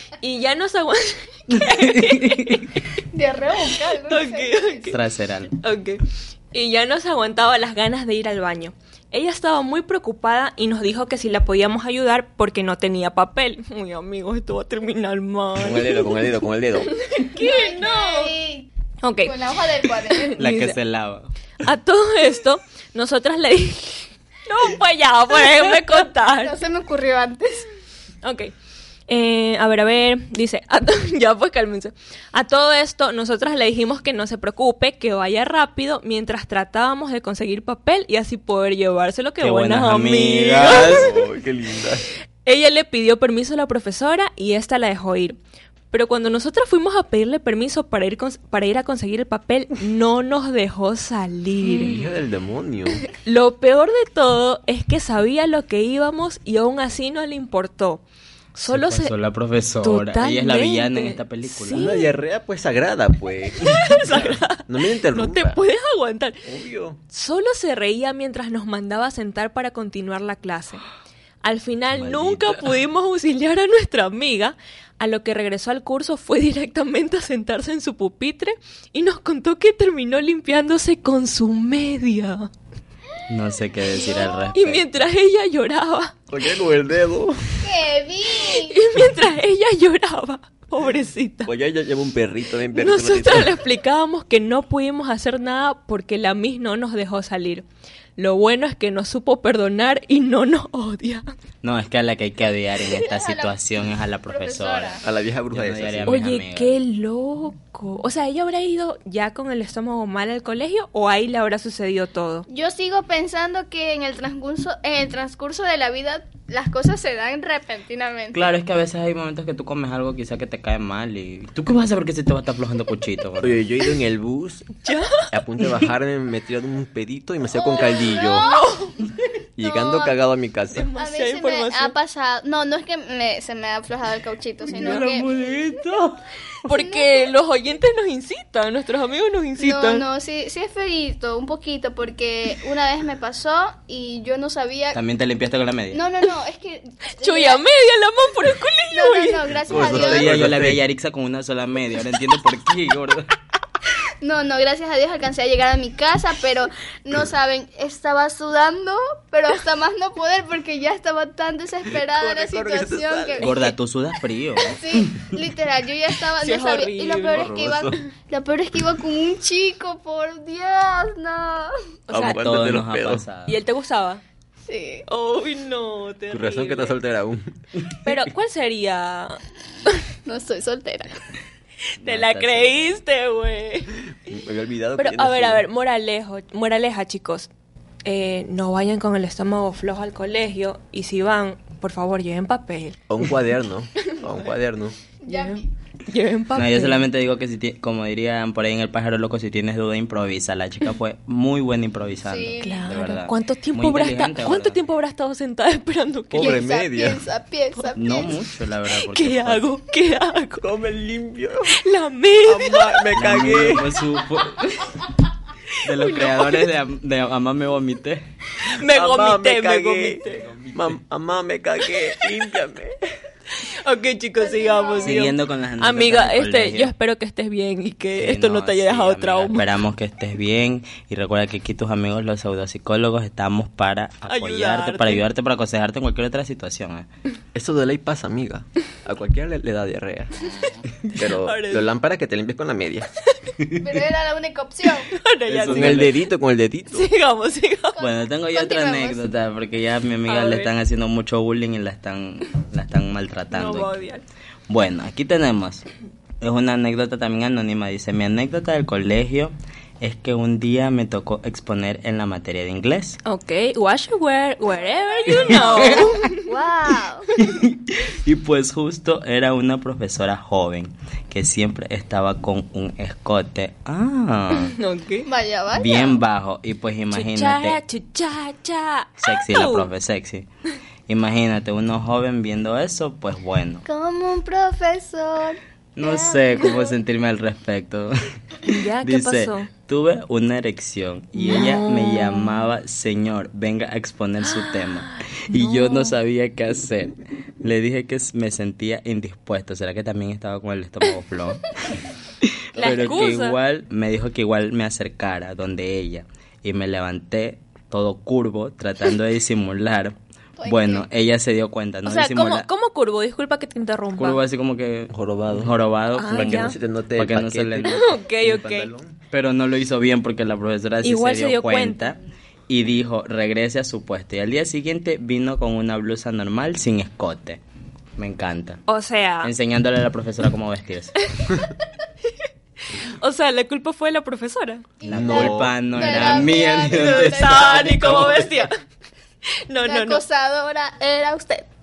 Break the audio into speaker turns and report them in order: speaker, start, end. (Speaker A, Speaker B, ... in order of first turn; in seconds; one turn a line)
Speaker A: 0.2-2.8
Speaker B: 1.5-2.6
Speaker C: 3.1-4.9
Speaker A: 4.0-5.0
Speaker B: 4.9-5.5
Speaker A: 5.5-16.2
Speaker D: 15.6-16.9
Speaker A: 16.9-18.3
Speaker C: 17.3-18.7
Speaker A: 19.0-19.4
Speaker C: 19.2-20.4
Speaker A: 20.1-20.8
Speaker B: 20.4-21.3
Speaker A: 21.6-26.5
Speaker C: 26.4-27.7
Speaker A: 28.2-28.5
Speaker A: 29.1-41.1
Speaker B: 39.4-41.1
Speaker D: 40.7-42.1
Speaker A: 42.4-45.4
Speaker A: 45.9-52.1
Speaker D: 51.7-53.1
Speaker A: 53.0-58.0
Speaker A: 58.5-59.1
Speaker B: 58.7-61.9
Speaker A: 59.8-62.1
Speaker D: 61.7-65.6
Speaker A: 63.6-66.4
Speaker D: 66.4-67.0
Speaker A: 67.1-70.8
Speaker A: 71.4-82.5
Speaker B: 71.9-72.6
Speaker B: 83.3-84.8
Speaker C: 83.9-84.4
Speaker A: 84.5-86.2
Speaker D: 86.3-87.6
Speaker C: 87.6-88.8
Speaker A: 88.5-91.5
Speaker D: 91.5-93.6
Speaker A: 92.7-97.6
Speaker A: 98.2-101.3
Speaker B: 101.6-106.7
Speaker C: 102.8-103.6
Speaker C: 104.3-105.0
Speaker D: 105.0-106.2
Speaker A: 106.0-112.5
Speaker C: 112.5-118.4
Speaker B: 118.3-123.6
Speaker D: 123.4-128.5
Speaker A: 124.8-125.3
Speaker C: 127.5-128.6
Speaker A: 128.2-129.0
Speaker D: 129.6-130.9
Speaker C: 129.6-130.2
Speaker A: 130.8-131.9
Speaker C: 130.9-135.3
Speaker B: 134.7-136.2
Speaker A: 134.8-135.1
Speaker A: 136.7-140.0
Speaker C: 136.7-137.3
Speaker C: 139.6-145.0
Speaker B: 144.9-146.0
Speaker C: 145.9-147.6
Speaker A: 147.2-149.5
Speaker C: 148.9-150.4
Speaker D: 149.7-150.8
Speaker B: 149.7-153.3
Speaker C: 154.2-163.6
Speaker D: 161.9-163.6
Speaker B: 163.4-165.4
Speaker C: 164.6-171.8
Speaker A: 166.4-167.5
Speaker D: 167.3-168.0
Speaker A: 172.1-172.4
Speaker D: 172.1-173.2
Speaker B: 172.2-173.6
Speaker A: 173.5-174.2
Speaker C: 174.7-175.0
Speaker A: 175.1-176.9
Speaker D: 176.3-177.5
Speaker A: 178.0-180.0
Speaker C: 180.2-181.2
Speaker B: 182.0-182.9
Speaker A: 182.0-183.9
Speaker D: 184.3-185.7
Speaker A: 185.0-187.5
Speaker A: 188.0-193.0
Speaker D: 193.1-195.0
Speaker C: 195.2-195.7
Speaker A: 195.2-197.1
Speaker B: 196.5-204.8
Speaker C: 202.2-202.9
Speaker A: 202.6-206.6
Speaker D: 206.3-207.2
Speaker C: 206.3-208.3
Speaker B: 207.9-209.6
Speaker A: 209.0-210.6
Speaker D: 210.6-211.7
Speaker A: 211.7-213.0
Speaker D: 212.4-213.9
Speaker B: 213.1-215.1
Speaker B: 215.8-218.2
Speaker A: 216.0-216.6
Speaker A: 218.7-220.4
Speaker D: 218.8-223.0
Speaker A: 223.5-229.7
Speaker C: 224.4-225.2
Speaker B: 225.0-226.9
Speaker B: 228.2-237.1
Speaker A: 234.2-235.2
Speaker D: 237.5-240.5
Speaker D: 241.1-243.1
Speaker A: 241.4-241.9
Speaker C: 243.8-245.1
Speaker A: 245.1-246.3
Speaker D: 245.5-247.1
Speaker B: 245.6-246.1
Speaker A: 246.9-248.0
Speaker C: 248.0-249.2
Speaker B: 248.0-253.9
Speaker A: 250.3-250.7
Speaker A: 253.5-254.2
Speaker B: 254.7-255.8
Speaker B: 256.4-263.2
Speaker A: 263.2-266.5
Speaker C: 265.0-267.3
Speaker B: 265.6-266.0
Speaker B: 267.4-274.7
Speaker A: 274.6-275.3
Speaker C: 275.2-276.2
Speaker B: 275.7-277.8
Speaker A: 277.1-279.9
Speaker B: 279.2-280.4
Speaker B: 281.1-283.8
Speaker C: 283.8-287.0
Speaker B: 285.9-288.1
Speaker B: 288.6-301.8
Speaker A: 288.6-289.7
Speaker A: 291.4-292.6
Speaker A: 294.4-296.1
Speaker B: 302.4-312.7
Speaker D: 302.8-303.3
Speaker A: 302.8-303.6
Speaker C: 310.6-311.1
Speaker A: 312.1-314.4
Speaker B: 314.1-318.1
Speaker D: 315.1-315.8
Speaker A: 316.1-316.8
Speaker D: 316.3-319.1
Speaker A: 317.8-318.9
Speaker B: 319.3-327.6
Speaker A: 321.0-322.2
Speaker B: 328.2-328.8
Speaker A: 328.9-329.5
Speaker B: 329.4-331.3
Speaker A: 333.0-335.0
Speaker C: 335.0-337.9
Speaker B: 335.0-338.5
Speaker D: 335.1-335.8
Speaker A: 336.0-338.8
Speaker D: 337.9-338.5
Speaker A: 339.7-340.2
Speaker C: 339.8-341.7